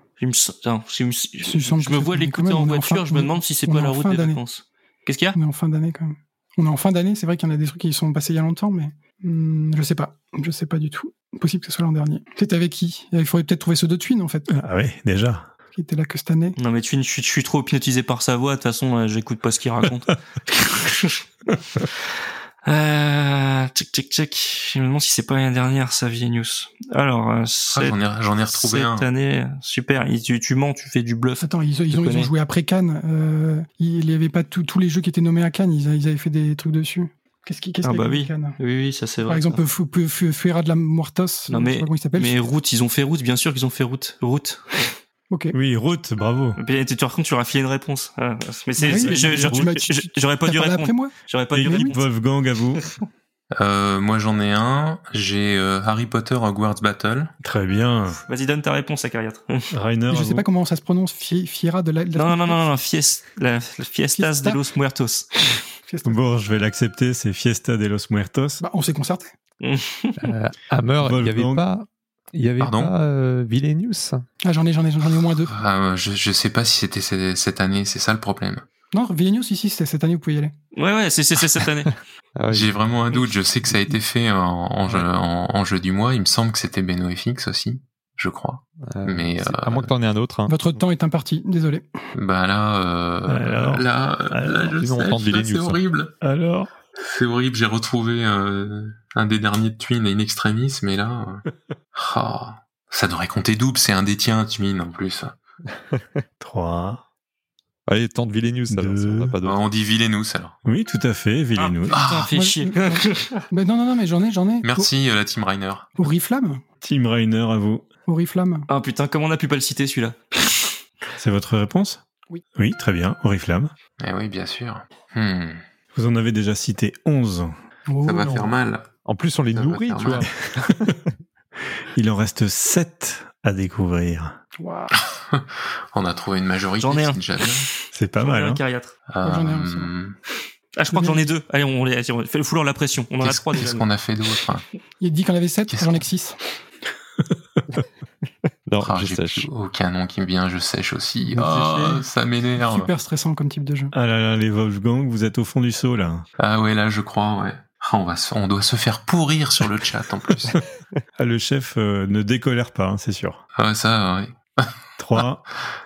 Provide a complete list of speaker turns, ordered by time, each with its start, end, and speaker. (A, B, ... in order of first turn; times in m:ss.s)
0:00.2-0:05.4 A
0:01.4-0:04.4 B
0:05.4-0:14.5 B
0:14.5-0:15.5 C
0:15.8-0:16.6 B
0:16.6-0:28.0 A
0:27.7-0:29.1 D
0:28.5-0:32.3 A
0:31.4-0:38.6 B
0:37.8-0:39.6 A
0:39.2-0:42.4 B
0:41.5-0:45.0 A
0:45.3-0:45.6 B
0:45.5-0:46.6 C
0:46.6-0:52.0 A
0:48.8-0:52.0 B
0:51.5-0:52.8 C
0:52.8-0:53.0 A
0:53.5-0:57.3 D
0:57.4-0:58.2 C
0:58.3-0:59.7 A
0:59.7-1:00.5 C
1:00.1-1:02.7 B
1:02.2-1:05.3 A
1:04.2-1:04.6 B
1:05.8-1:06.2 B
1:06.0-1:08.6 C
1:08.6-1:09.3 B
1:09.6-1:10.3 A
1:10.2-1:14.2 E
1:11.0-1:11.6 C
1:12.6-1:12.9 D
1:14.4-1:15.5 B
1:15.5-1:18.6 D
1:18.9-1:20.5 B
1:20.8-1:21.9 A
1:22.4-1:22.8 E
1:22.5-1:29.9 D
1:28.9-1:30.8 E
1:30.5-1:31.9 B
1:32.2-1:36.1 D
1:33.3-1:34.8 C
1:34.8-1:35.8 E
1:36.2-1:36.7 C
1:37.0-1:41.4 D
1:42.0-1:45.4 D
1:45.7-1:46.2 E
1:46.4-1:47.0 C
1:47.9-1:49.6 E
1:48.7-1:49.4 C
1:49.4-1:50.6 D
1:50.6-1:52.0 C
1:51.6-1:53.4 A
1:51.9-1:52.3 D
1:52.3-1:54.9 B
1:54.6-1:55.9 D
1:56.0-1:56.6 B
1:56.8-1:57.9 C
1:58.1-1:58.7 B
1:58.7-2:00.8 A
2:01.2-2:02.0 C
2:02.6-2:03.7 C
2:04.0-2:05.6 D
2:05.9-2:07.5 C
2:07.9-2:08.5 B
2:08.0-2:08.9 D
2:09.0-2:11.1 E
2:09.5-2:10.3 D
2:10.3-2:11.0 C
2:11.9-2:14.4 C
2:14.6-2:14.9 B
2:15.0-2:17.7 D
2:16.8-2:19.0 A
2:17.9-2:18.6 C
2:19.1-2:20.2 D
2:19.2-2:19.9 B
2:20.8-2:23.9 A
2:20.9-2:21.3 B
2:23.2-2:24.6 D
2:25.0-2:26.4 B
2:25.7-2:26.0 D
2:27.6-2:27.8 C
2:28.6-2:29.5 E
2:28.8-2:32.9 D
2:32.6-2:33.9 B
2:33.9-2:36.3 C
2:36.4-2:40.5 D
2:41.2-2:43.4 C
2:43.6-2:45.2 D
2:45.0-2:45.4 C